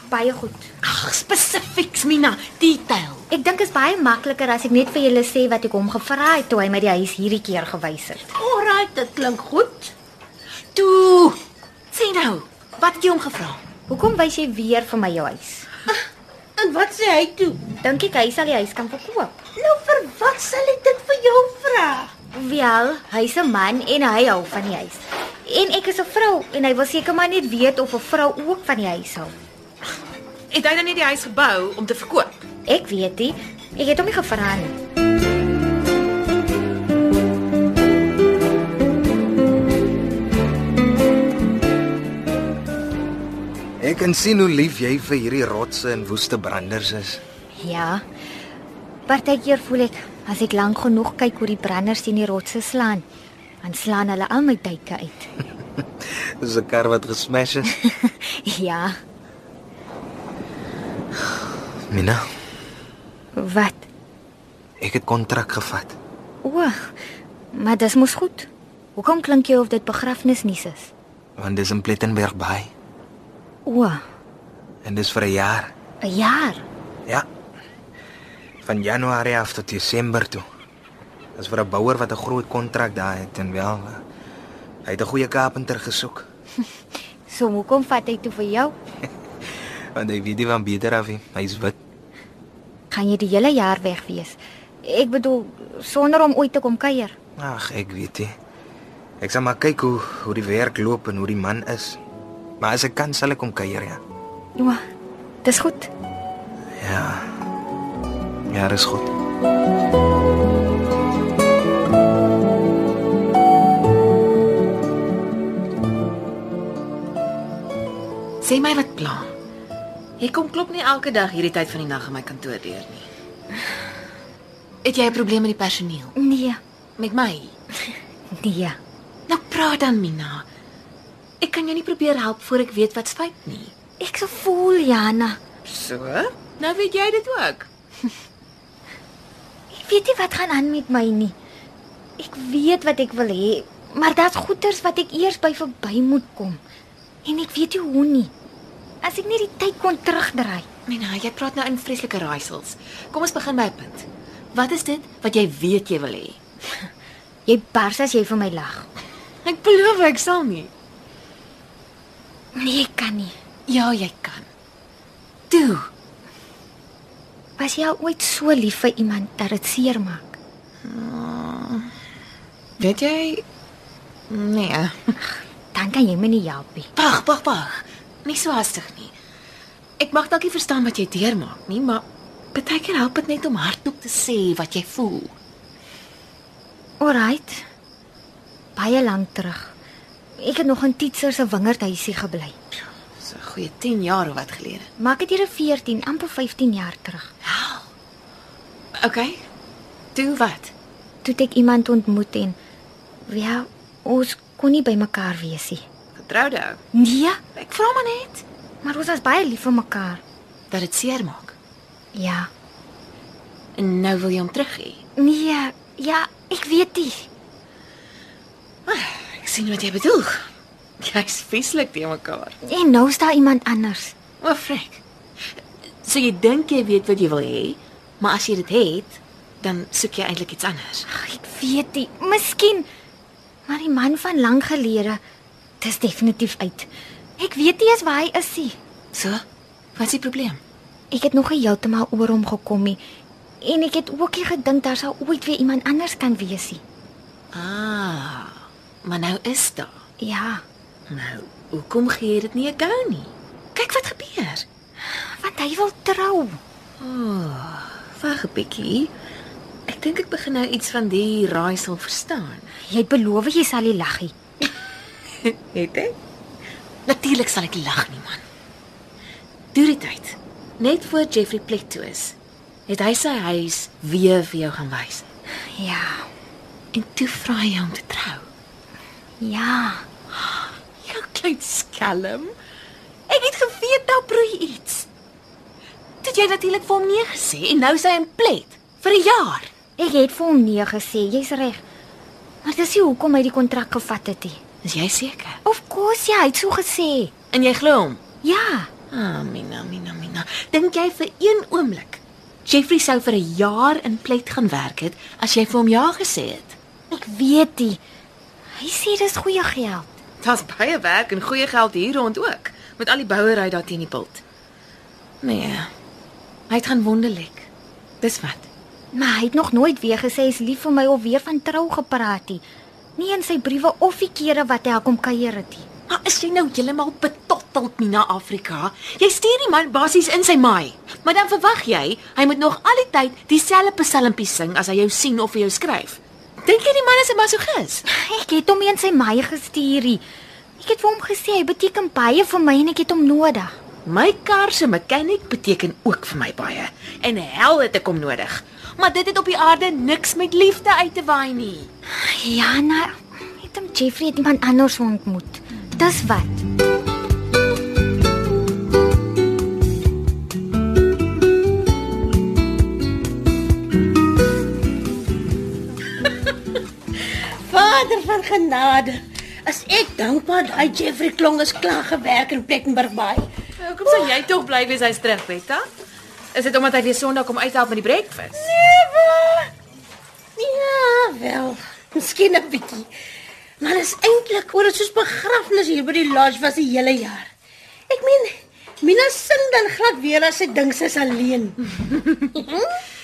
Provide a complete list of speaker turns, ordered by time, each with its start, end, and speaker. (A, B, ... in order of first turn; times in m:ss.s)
0:00.1-0:00.7 A
0:00.8-0:03.3 B
0:03.3-0:08.2 A
0:08.4-0:09.9 C
0:10.8-0:11.4 B
0:11.9-0:13.6 B
0:13.9-0:15.7 A
0:16.6-0:17.6 C
0:17.8-0:19.3 A
0:19.6-0:22.1 C
0:22.3-0:29.4 A
0:30.5-0:32.4 B
0:32.7-0:34.8 A
0:43.8-0:47.2 D
0:47.6-0:48.0 A
0:49.1-0:53.0 A
0:53.6-0:55.3 A
0:56.2-0:57.7 D
0:57.8-0:59.0 A
1:01.9-1:02.2 D
1:03.4-1:03.9 A
1:04.8-1:06.0 D
1:06.4-1:06.9 A
1:07.5-1:10.9 A
1:11.4-1:12.7 D
1:13.7-1:14.0 A
1:14.8-1:15.7 D
1:16.0-1:16.6 A
1:18.6-1:20.4 D
1:21.4-1:24.0 D
1:24.8-1:26.3 D
1:27.3-1:28.8 A
1:30.0-1:31.8 D
1:32.9-1:37.2 A
1:37.4-1:38.3 D
1:39.2-1:42.0 D
1:42.6-1:44.0 D
1:45.4-1:45.9 A
1:46.8-1:47.3 D
1:48.5-1:49.1 D
1:58.4-1:59.3 B
2:00.2-2:03.1 B
2:04.8-2:06.2 B
2:06.2-2:06.6 A
2:07.0-2:07.5 B
2:08.4-2:08.8 A
2:09.3-2:10.5 B
2:11.4-2:13.7 B
2:14.0-2:15.4 A
2:15.6-2:17.7 B
2:19.7-2:21.4 A
2:22.2-2:26.6 A
2:27.2-2:28.3 A
2:29.0-2:30.7 A
2:30.9-2:36.4 B
2:37.5-2:38.9 A
2:39.4-2:40.7 B
2:42.6-2:43.4 A
2:43.7-2:44.5 B
2:45.5-2:45.9 B
2:47.6-2:50.4 A
2:50.8-2:51.9 B
2:52.8-2:53.4 B
2:54.3-2:55.2 B
2:55.7-2:56.9 A
2:57.0-2:59.1 B
3:00.0-3:05.4 B
3:07.0-3:07.6 A
3:08.8-3:09.7 A
3:10.4-3:12.6 A
3:13.2-3:14.9 B
3:15.0-3:17.3 A
3:17.4-3:17.9 B
3:19.0-3:19.4 B
3:20.2-3:20.7 B
3:21.2-3:22.6 A
3:23.3-3:25.8 A
3:26.2-3:26.8 B
3:26.9-3:27.4 A
3:27.6-3:28.4 B
3:28.8-3:30.2 A
3:30.7-3:31.6 B
3:32.1-3:32.5 A
3:33.8-3:35.0 B
3:35.2-3:37.3 A
3:38.9-3:40.5 B
3:41.0-3:42.6 B
3:42.6-3:44.2 A
3:44.4-3:45.0 B
3:46.0-3:51.1 B
3:51.1-3:52.9 A
3:53.7-3:55.2 A
3:55.8-3:58.8 A
3:59.1-3:59.4 B
4:00.0-4:00.6 B
4:01.1-4:03.0 A
4:03.6-4:06.8 A
4:07.5-4:09.9 B
4:10.2-4:10.6 A
4:11.1-4:14.7 B
4:15.1-4:16.6 A
4:17.0-4:19.1 B
4:19.9-4:22.7 B
4:22.9-4:24.4 A
4:25.4-4:26.1 B
4:27.1-4:28.4 B
4:29.7-4:32.4 B
4:32.9-4:35.2 B
4:35.8-4:36.3 A
4:36.9-4:38.5 B
4:39.4-4:40.0 A
4:41.0-4:42.5 B
4:43.3-4:45.1 B
4:46.2-4:49.7 B
4:50.0-4:51.8 A
4:52.6-4:54.6 A
4:54.8-4:55.6 B
4:55.6-4:57.3 A
4:57.5-4:58.2 B
4:58.4-4:58.9 A
4:59.1-5:06.8 B
5:07.1-5:08.0 A
5:08.8-5:10.1 A
5:10.4-5:14.4 B
5:15.4-5:15.9 B
5:16.7-5:17.7 B
5:18.2-5:18.7 B
5:19.1-5:22.6 A
5:23.2-5:25.9 A
5:26.1-5:38.0 B
5:38.1-5:40.2 A
5:40.8-5:43.7 A
5:44.1-5:51.9 B
5:52.2-5:56.6 A
6:07.2-6:13.5 C
6:13.8-6:15.8 B
6:16.5-6:18.7 B
6:18.7-6:19.7 C
6:20.6-6:23.1 C
6:23.8-6:27.5 C
6:28.1-6:31.8 C
6:32.0-6:33.0 B